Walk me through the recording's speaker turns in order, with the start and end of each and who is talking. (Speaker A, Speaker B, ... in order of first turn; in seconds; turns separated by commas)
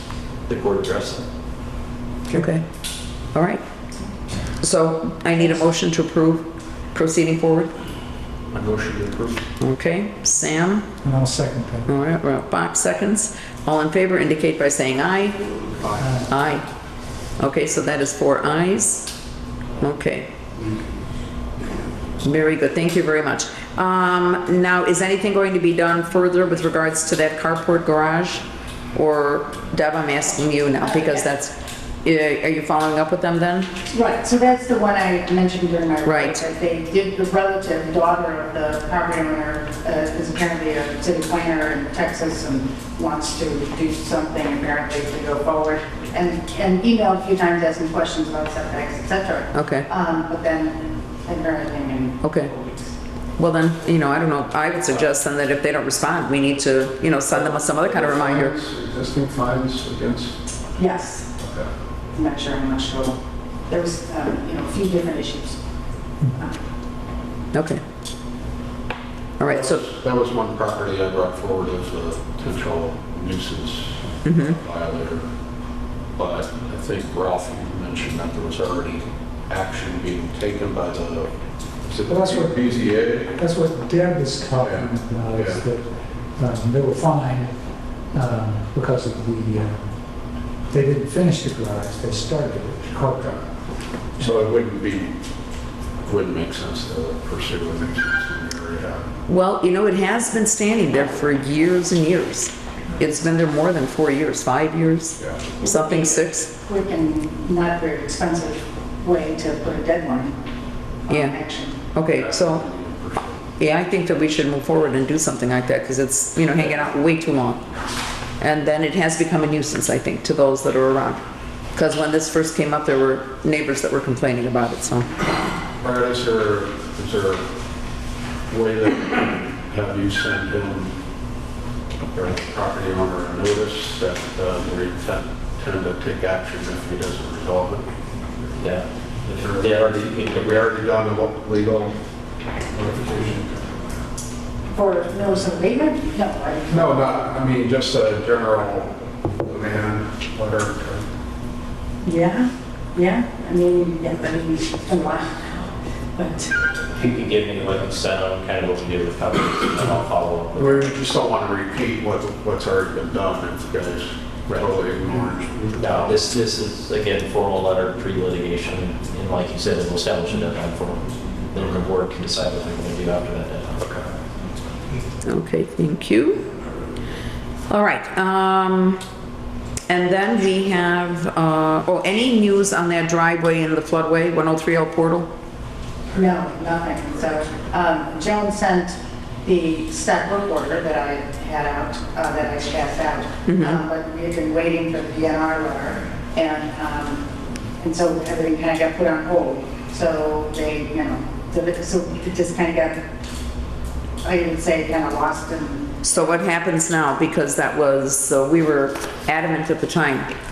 Speaker A: 0.5-1.2, Speaker B: 2.3-2.6, Speaker B: 3.3-3.6, Speaker B: 4.6-7.7, Speaker C: 8.5-9.4, Speaker B: 9.6-10.9, Speaker D: 11.0-11.9, Speaker B: 11.9-15.4, Speaker C: 15.8-16.0, Speaker D: 15.9-16.3, Speaker B: 16.3-16.6, Speaker B: 17.4-19.1, Speaker B: 19.8-20.3, Speaker B: 22.2-33.7, Speaker E: 30.8-31.2, Speaker E: 33.9-52.7, Speaker B: 36.0-36.4, Speaker B: 49.5-49.9, Speaker B: 52.2-52.5, Speaker B: 53.4-58.5, Speaker C: 57.4-60.4, Speaker E: 60.8-61.3, Speaker C: 61.4-61.7, Speaker E: 62.1-65.6, Speaker E: 66.3-66.6, Speaker B: 67.5-67.8, Speaker B: 69.4-69.8, Speaker C: 69.5-75.2, Speaker B: 74.2-74.5, Speaker C: 76.2-81.3, Speaker C: 81.8-83.4, Speaker D: 82.1-94.5, Speaker C: 84.6-85.6, Speaker C: 94.2-95.2, Speaker C: 96.0-99.1, Speaker B: 99.3-106.5, Speaker E: 105.6-110.3, Speaker E: 111.1-111.8, Speaker B: 111.1-111.3, Speaker B: 111.9-112.6, Speaker C: 112.1-113.5, Speaker B: 113.6-117.6, Speaker B: 118.4-121.2, Speaker B: 121.7-125.1, Speaker C: 125.8-127.4, Speaker C: 128.5-130.9, Speaker C: 132.1-137.9, Speaker A: 138.6-140.7, Speaker C: 139.3-141.9, Speaker C: 142.7-143.8, Speaker E: 144.7-147.0, Speaker C: 146.7-151.1, Speaker E: 152.0-155.5, Speaker E: 156.2-156.5, Speaker A: 156.9-160.9, Speaker C: 160.6-166.1, Speaker A: 165.8-173.9, Speaker B: 175.2-176.4, Speaker B: 177.7-179.0, Speaker B: 179.9-185.3, Speaker E: 186.1-197.3, Speaker B: 193.4-193.8, Speaker E: 197.8-203.0, Speaker E: 204.2-206.0, Speaker B: 206.0-210.3